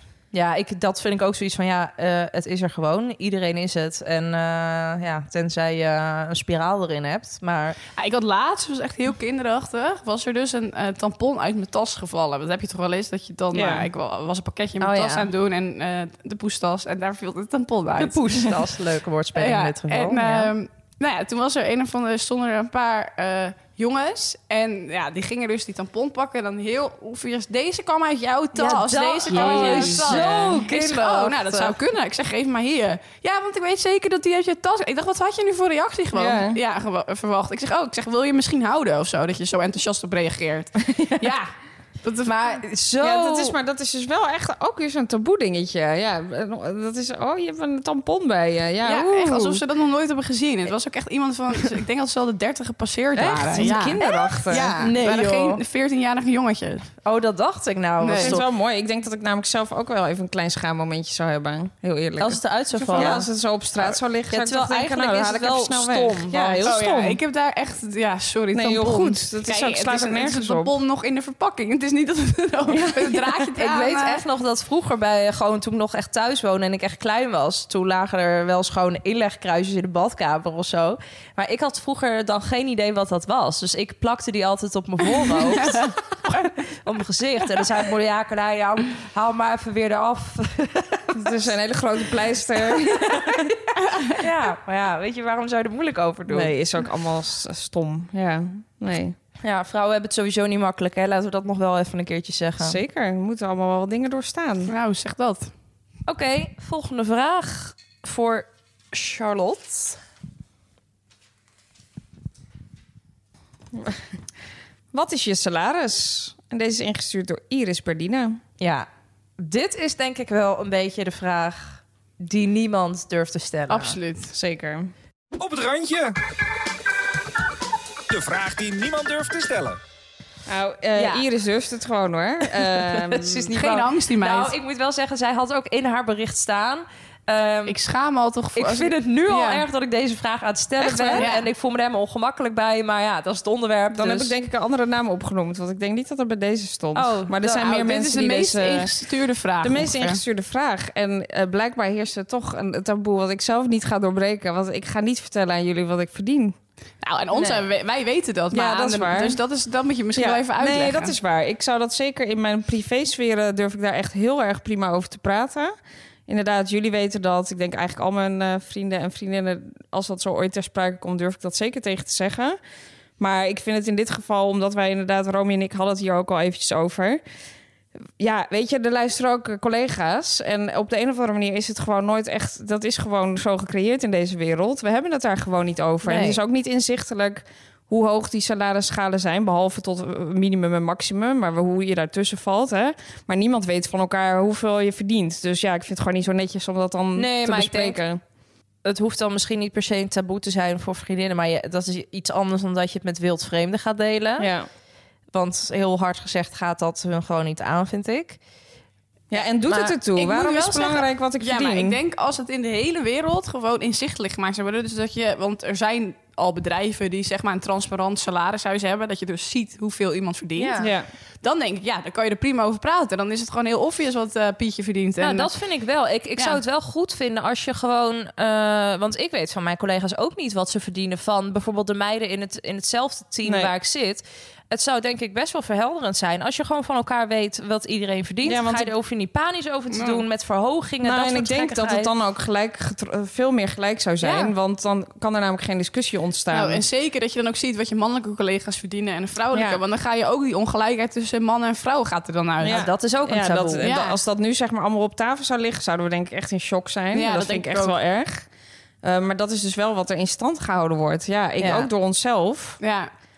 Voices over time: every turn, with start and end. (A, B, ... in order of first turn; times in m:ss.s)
0:00.3-0:07.8 A
0:08.0-0:18.5 B
0:13.5-0:13.9 C
0:14.8-0:15.3 A
0:18.0-0:20.5 A
0:19.4-0:41.5 B
0:28.6-0:31.8 A
0:29.3-0:30.7 C
0:36.1-0:36.6 C
0:40.9-0:41.3 C
0:42.0-0:42.6 B
0:42.2-0:43.6 A
0:43.0-0:49.6 C
0:48.8-0:56.9 B
0:53.2-0:54.7 C
0:54.0-0:55.6 A
0:57.0-0:58.4 A
0:58.0-0:58.4 B
0:58.2-1:07.2 C
1:02.2-1:03.3 A
1:02.8-1:03.3 B
1:03.8-1:06.8 A
1:06.3-1:14.2 B
1:08.5-1:10.7 C
1:12.7-1:13.2 C
1:13.6-1:31.5 A
1:25.5-1:25.9 B
1:31.1-1:33.5 C
1:33.0-1:33.4 A
1:34.0-1:36.5 A
1:36.3-1:39.2 C
1:39.4-1:42.8 A
1:42.6-1:44.7 C
1:44.7-1:45.5 B
1:46.1-1:50.0 A
1:53.7-1:54.1 C
1:54.9-1:58.4 C
1:58.6-2:04.0 A
2:03.7-2:04.3 B
2:04.3-2:04.9 C
2:05.4-2:06.2 D
2:08.1-2:09.8 D
2:10.5-2:13.5 C
2:11.0-2:11.2 A
2:12.7-2:17.8 A
2:13.5-2:14.6 B
2:17.7-2:19.6 B
2:18.6-2:24.3 A
2:20.8-2:21.3 C
2:21.1-2:21.5 B
2:23.9-2:28.9 C
2:27.0-2:27.6 A
2:27.4-2:30.2 B
2:29.6-2:36.6 C
2:37.0-2:41.2 B
2:37.3-2:37.6 A
2:38.5-2:39.4 C
2:40.2-2:45.7 C
2:46.3-2:52.6 C
2:53.2-2:57.2 C
2:58.2-3:18.2 C
3:06.0-3:06.4 A
3:17.2-3:18.0 A
3:18.8-3:24.5 A
3:24.4-3:24.7 C
3:25.3-3:28.4 A
3:29.3-3:32.0 C
3:29.7-3:29.9 A
3:30.2-3:40.9 B
3:40.6-3:40.9 A
3:40.8-3:41.1 C
3:41.4-3:45.5 B
3:45.2-4:02.1 A
3:53.5-3:53.7 C
3:58.4-3:58.9 C
3:59.9-4:00.2 B
4:01.0-4:06.8 C
4:04.2-4:04.5 A
4:06.5-4:12.8 B
4:09.5-4:09.8 C
4:12.6-4:18.5 C
4:12.6-4:13.9 A
4:13.8-4:14.2 B
4:17.1-4:18.0 B
4:19.0-4:22.8 C
4:21.6-4:21.9 A
4:22.8-4:23.1 B